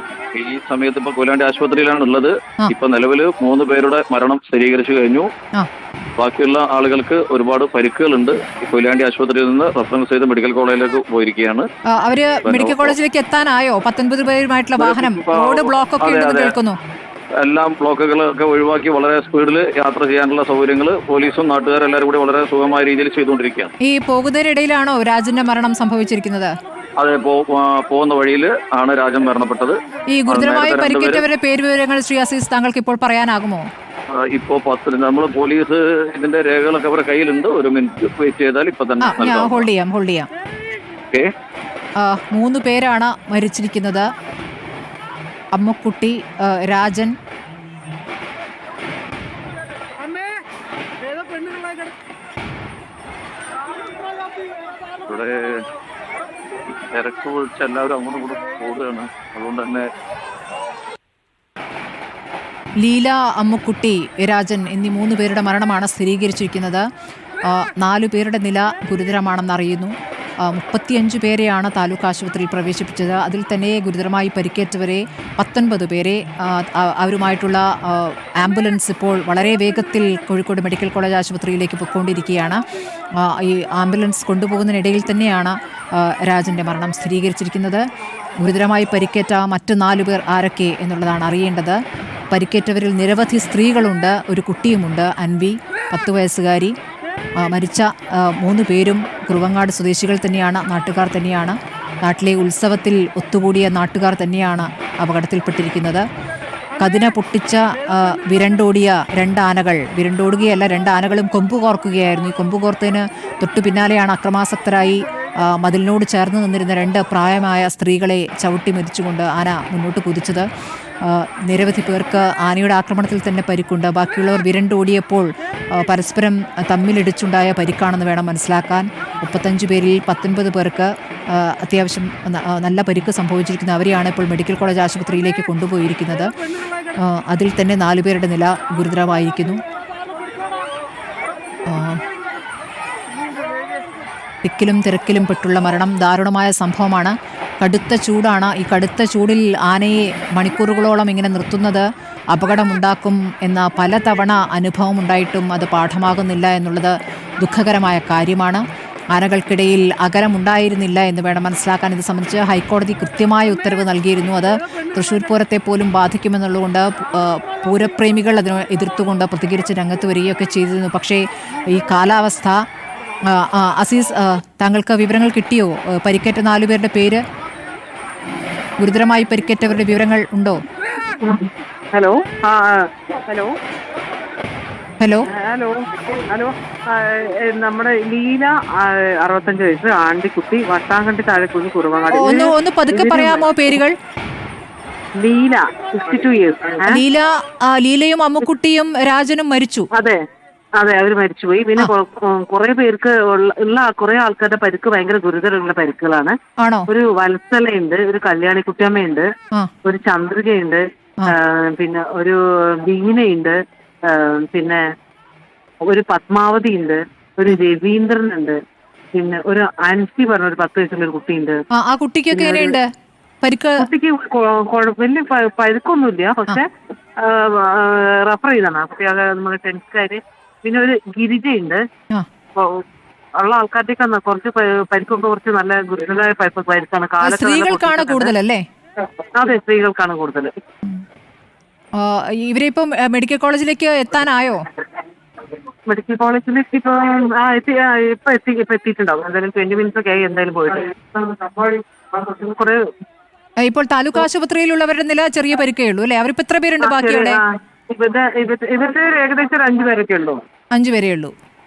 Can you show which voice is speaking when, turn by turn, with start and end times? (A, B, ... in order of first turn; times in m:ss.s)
0:00.3-0:05.3 A
0:06.2-0:11.7 A
0:11.9-0:16.8 B
0:12.4-0:12.9 A
0:14.8-0:16.5 A
0:17.4-0:23.7 A
0:23.8-0:26.5 B
0:27.0-0:31.2 A
0:30.1-0:33.6 B
0:34.1-0:39.7 A
0:39.0-0:40.3 B
0:42.0-0:44.0 B
0:45.5-0:47.1 B
0:55.1-0:55.6 A
0:56.9-0:59.9 A
1:02.8-1:06.8 B
1:07.5-1:09.9 B
1:10.5-1:22.6 B
1:23.2-1:27.8 B
1:28.4-1:31.8 B
1:32.3-1:36.7 B
1:37.4-1:46.0 B
1:46.8-2:00.4 B
2:01.0-2:16.3 B
2:17.0-2:19.6 B
2:21.7-2:22.0 B
2:24.4-2:38.6 B
2:39.1-2:52.6 B
2:53.3-2:57.2 B
2:58.8-3:00.6 B
3:01.2-3:03.5 C
3:05.0-3:05.3 B
3:05.3-3:13.4 C
3:12.1-3:13.9 B
3:15.2-3:17.0 C
3:16.9-3:19.9 B
3:19.9-3:20.2 C
3:20.8-3:26.4 C
3:26.6-3:26.9 B
3:26.9-3:29.3 C
3:29.8-3:34.8 C
3:35.8-3:38.6 C
3:39.1-3:41.6 C
3:41.7-3:42.9 B
3:42.3-3:42.8 C
3:43.4-3:43.8 B
3:43.8-3:51.8 C
3:52.6-3:52.8 C
3:53.4-3:58.3 C
3:57.2-3:58.6 B
3:59.3-4:00.5 C
4:02.0-4:04.6 B
4:05.9-4:12.8 C
4:13.6-4:17.4 B
4:16.8-4:20.4 C
4:20.7-4:21.3 B